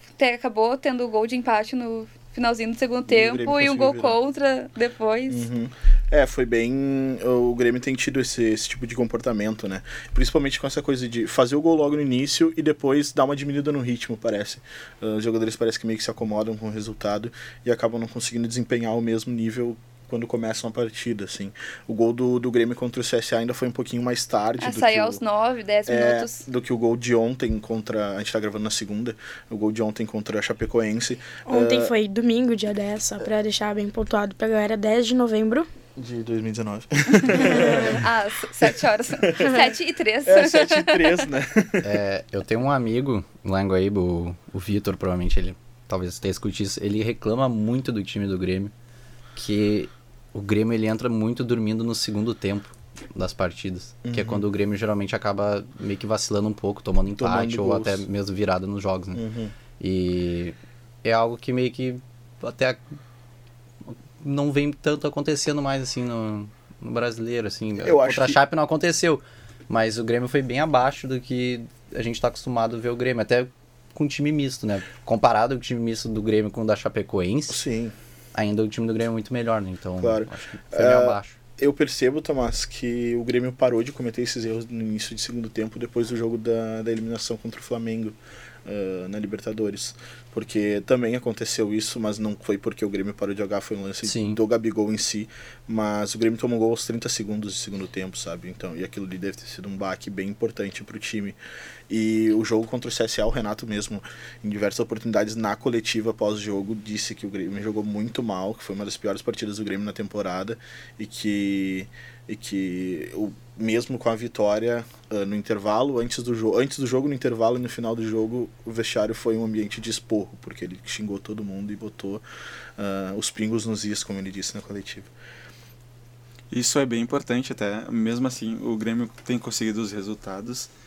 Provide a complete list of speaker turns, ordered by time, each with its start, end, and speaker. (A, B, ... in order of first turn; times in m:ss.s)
0:00.2-0:05.5 A
0:03.1-0:04.2 B
0:05.3-0:25.2 B
0:24.6-0:26.4 A
0:25.8-0:31.9 B
0:31.4-0:35.7 C
0:36.0-0:38.1 B
0:37.4-0:41.2 A
0:37.5-0:38.0 C
0:38.6-0:39.6 B
0:40.2-0:42.0 B
0:41.8-0:48.7 D
0:49.3-0:59.2 D
0:54.0-0:54.4 B
0:57.1-0:58.0 B
0:59.1-0:59.5 B
0:59.8-1:02.8 D
1:03.9-1:17.6 D
1:07.8-1:08.4 B
1:17.5-1:17.9 B
1:18.3-1:21.4 D
1:20.0-1:41.4 B
1:34.0-1:34.4 D
1:41.9-2:02.2 B
2:02.8-2:05.1 B
2:06.5-2:10.7 E